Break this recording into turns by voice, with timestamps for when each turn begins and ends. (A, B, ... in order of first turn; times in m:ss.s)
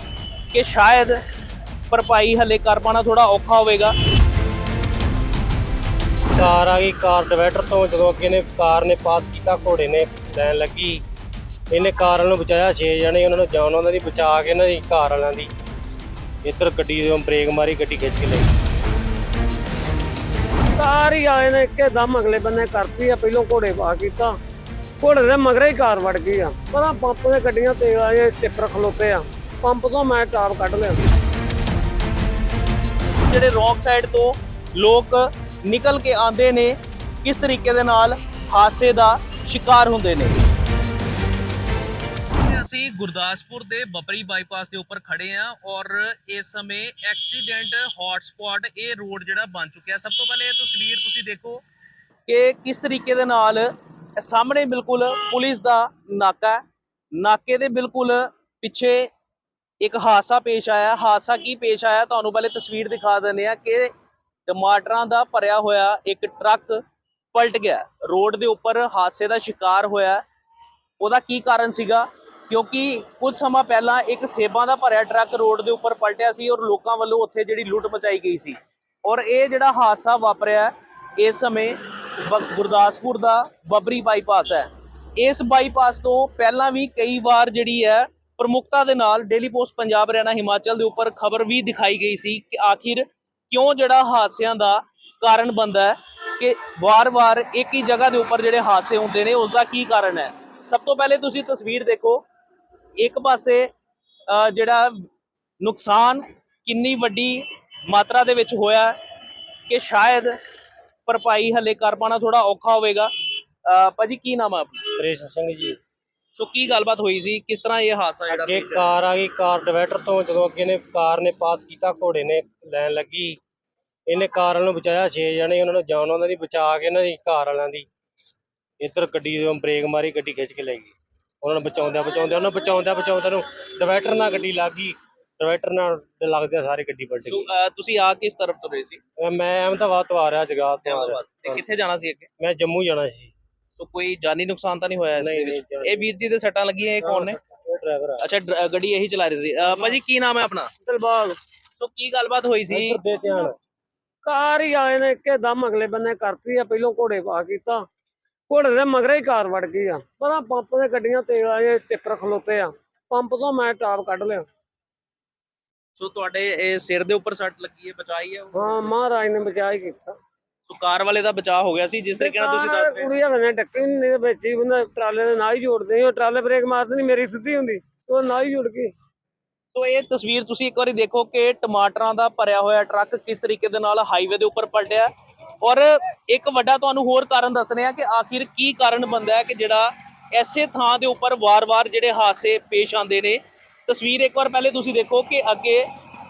0:00.5-0:01.2 A
0:01.9-0:03.9 A
0:06.4-0:11.0 B
0:11.7-0:15.5 B
0:16.4-0:18.5 B
0:20.8-0:24.4 C
0:25.0-0:31.0 C
0:33.2-0:40.4 A
0:42.4-0:51.6 A
0:52.3-0:56.6 A
0:57.1-0:59.1 A
0:59.8-1:03.9 A
1:04.5-1:06.8 A
1:07.3-1:10.2 A
1:11.0-1:42.2 A
1:43.0-1:43.7 A
1:44.3-1:45.0 A
1:45.6-1:48.9 A
1:49.7-1:50.4 A
1:51.0-1:53.1 A
1:53.6-1:54.8 A
1:55.0-1:55.8 B
1:56.4-1:58.9 A
1:58.3-2:03.4 B
2:04.1-2:07.9 B
2:08.8-2:17.4 B
2:17.2-2:19.0 A
2:19.2-2:21.6 B
2:20.8-2:22.3 A
2:22.4-2:23.3 B
2:23.8-2:27.4 A
2:25.2-2:26.1 B
2:27.0-2:28.2 B
2:28.2-2:30.7 A
2:30.8-2:31.4 C
2:31.8-2:33.0 A
2:32.7-2:33.5 B
2:34.2-2:37.8 C
2:38.5-2:44.4 C
2:46.0-2:48.6 A
2:48.5-2:50.2 C
2:50.7-2:53.1 A
2:52.1-2:58.9 C
2:59.7-3:05.1 A
3:05.6-3:15.8 A